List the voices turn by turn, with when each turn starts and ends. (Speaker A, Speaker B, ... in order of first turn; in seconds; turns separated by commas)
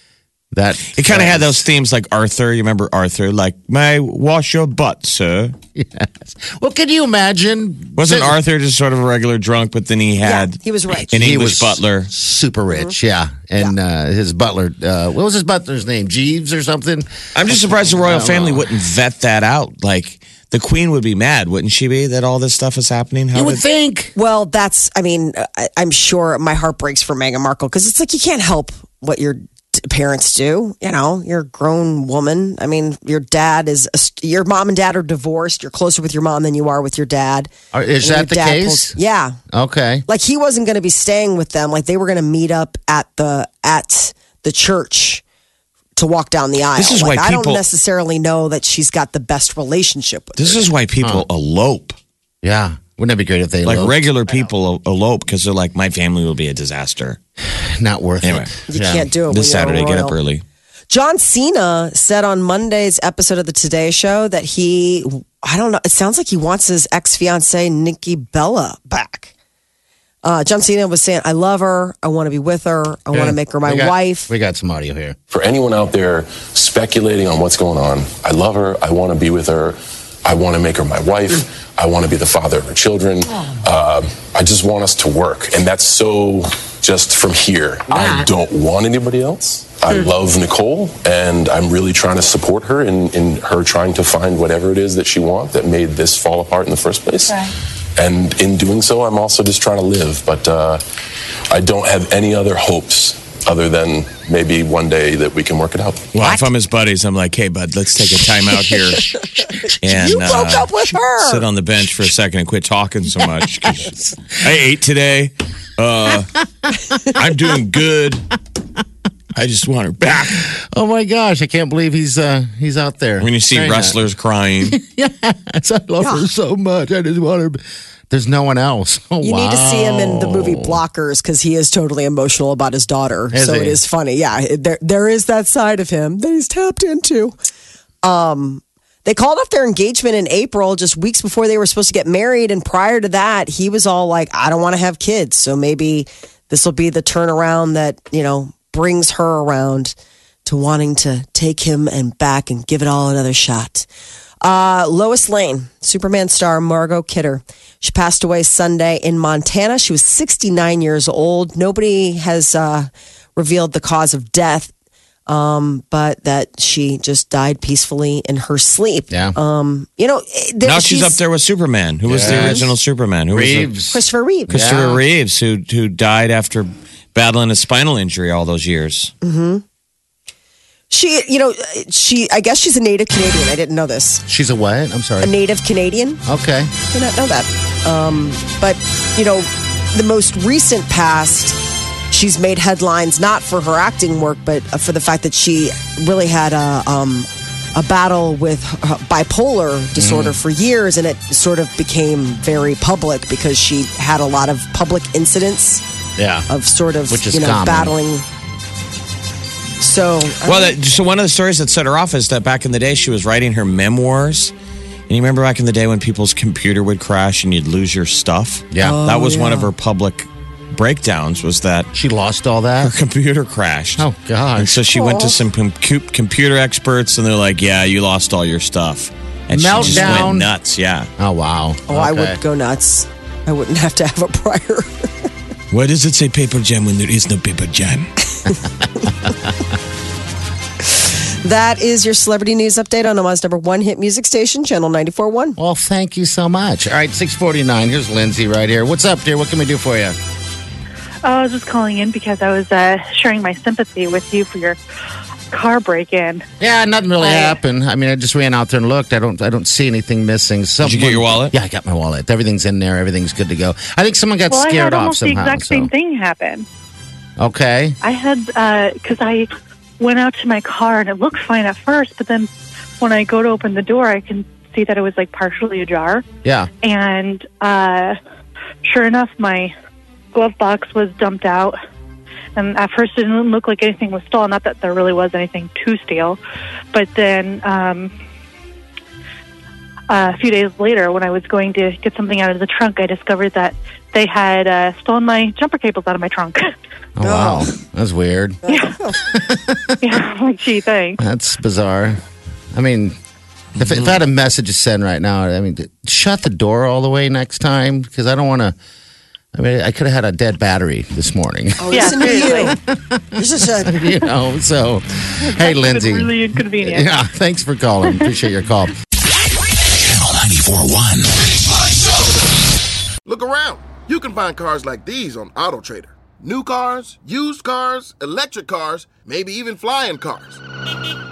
Speaker A: 0.5-1.6, Speaker B: 0.9-5.5, Speaker A: 5.7-8.4, Speaker B: 8.0-12.1, Speaker C: 10.2-11.1, Speaker A: 11.1-18.6, Speaker B: 17.3-23.6, Speaker A: 23.3-24.1, Speaker C: 24.1-37.5, Speaker A: 37.7-39.0, Speaker C: 38.0-39.4, Speaker A: 39.5-40.0, Speaker C: 40.1-45.2, Speaker C: 46.0-50.6, Speaker B: 46.8-47.6, Speaker B: 50.4-52.0, Speaker A: 52.4-54.1, Speaker B: 53.6-57.2, Speaker A: 57.6-59.0, Speaker B: 58.2-58.6, Speaker C: 58.7-60.1, Speaker B: 59.3-60.4, Speaker C: 60.9-69.3, Speaker C: 70.2-74.3, Speaker A: 73.1-75.2, Speaker D: 75.3-100.8, Speaker D: 101.5-106.1, Speaker B: 106.1-109.2, Speaker A: 106.2-106.5, Speaker A: 109.5-110.6, Speaker C: 109.6-111.4, Speaker B: 109.8-116.4, Speaker A: 113.2-114.4, Speaker B: 117.0-118.3, Speaker B: 119.3-120.4, Speaker A: 120.4-124.0, Speaker B: 123.2-124.8, Speaker A: 124.6-130.8, Speaker C: 129.2-137.3, Speaker A: 133.3-133.8, Speaker C: 138.0-153.9, Speaker C: 154.4-164.7, Speaker C: 165.3-171.2, Speaker A: 169.1-169.3, Speaker B: 170.6-173.7, Speaker A: 172.1-172.7, Speaker C: 172.2-172.6, Speaker A: 173.3-175.0, Speaker C: 173.9-174.5, Speaker B: 174.5-179.1, Speaker C: 179.2-179.6, Speaker C: 180.9-184.2, Speaker A: 184.3-185.3, Speaker C: 185.2-186.2, Speaker A: 186.2-186.7, Speaker C: 186.9-191.6, Speaker C: 192.1-205.8, Speaker A: 200.0-200.4, Speaker A: 206.2-206.5, Speaker C: 206.5-208.2, Speaker A: 207.1-207.9, Speaker C: 209.8-210.7, Speaker B: 210.4-214.5, Speaker B: 215.1-221.9, Speaker A: 218.7-219.0, Speaker C: 218.8-219.7, Speaker A: 221.9-222.9, Speaker B: 222.8-231.1, Speaker A: 224.0-224.8, Speaker C: 224.9-225.4, Speaker A: 229.5-230.5, Speaker C: 229.8-230.2, Speaker A: 231.2-232.4, Speaker C: 231.9-235.1, Speaker B: 235.7-238.1, Speaker A: 239.1-239.3, Speaker C: 240.9-245.6, Speaker A: 245.6-250.2, Speaker E: 251.2-254.8, Speaker E: 255.5-256.4, Speaker A: 256.6-265.9, Speaker E: 257.2-257.5, Speaker B: 260.8-261.5, Speaker E: 264.5-266.7, Speaker A: 267.4-268.0, Speaker E: 268.0-272.5, Speaker E: 273.0-276.2, Speaker E: 276.8-278.2, Speaker E: 278.8-279.7, Speaker E: 280.3-281.8, Speaker E: 282.5-286.4, Speaker E: 286.9-288.1, Speaker E: 290.1-296.7, Speaker A: 297.2-298.6, Speaker C: 297.2-297.7, Speaker C: 298.6-299.2, Speaker E: 298.7-298.9, Speaker A: 299.2-300.2, Speaker E: 300.0-301.2, Speaker A: 301.2-302.2, Speaker A: 302.7-303.2, Speaker A: 303.8-308.8, Speaker A: 309.5-318.9, Speaker C: 311.8-312.8, Speaker E: 311.9-312.8, Speaker C: 313.4-314.2, Speaker E: 315.4-317.1, Speaker F: 319.8-322.2, Speaker G: 323.2-330.6